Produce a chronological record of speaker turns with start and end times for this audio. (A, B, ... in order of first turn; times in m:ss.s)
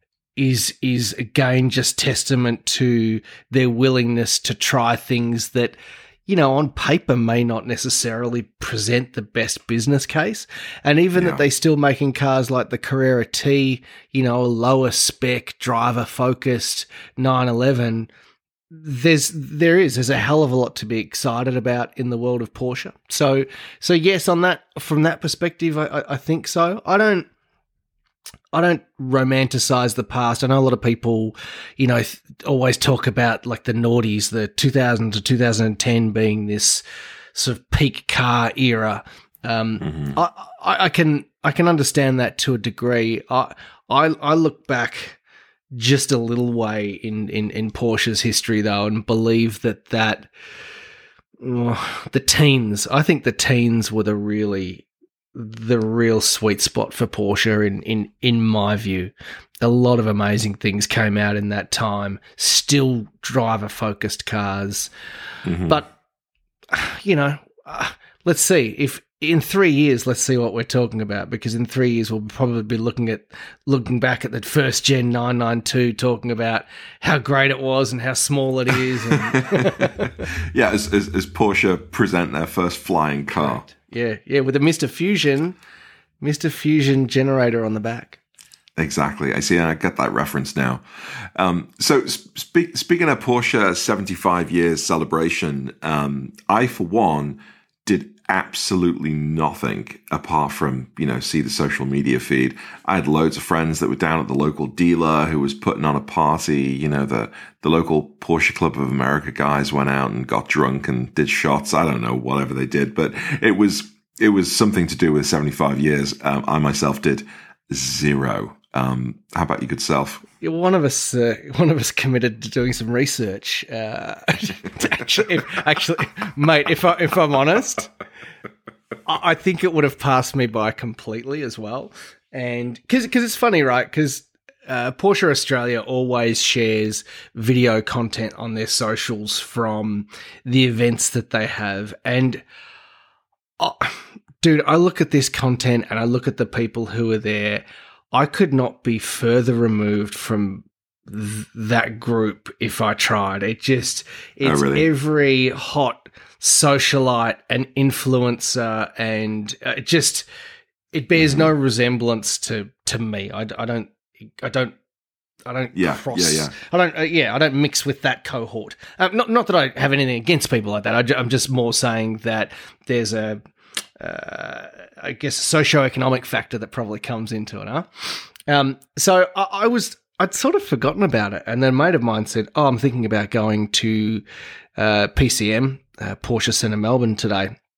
0:00.4-0:18.1 A
0:11.1-0:11.4 B
0:18.7-0:27.3 A
0:28.5-0:36.8 A
0:37.3-0:45.2 A
0:39.8-0:40.2 B
0:45.7-0:50.3 A
0:51.4-1:04.9 A
1:05.4-1:05.8 B
1:05.6-1:05.9 A
1:06.7-1:20.1 A
1:19.1-1:23.6 B
1:23.3-1:25.6 A
1:26.2-1:28.2 A
1:28.8-2:00.2 B
2:00.4-2:07.9 A
2:09.0-2:22.4 A
2:23.6-2:40.3 A
2:34.4-2:34.9 B
2:40.9-2:44.8 A
2:41.2-2:41.5 B
2:45.4-2:53.4 A
2:45.7-2:46.5 B
2:54.0-3:04.2 A
3:04.8-3:07.5 A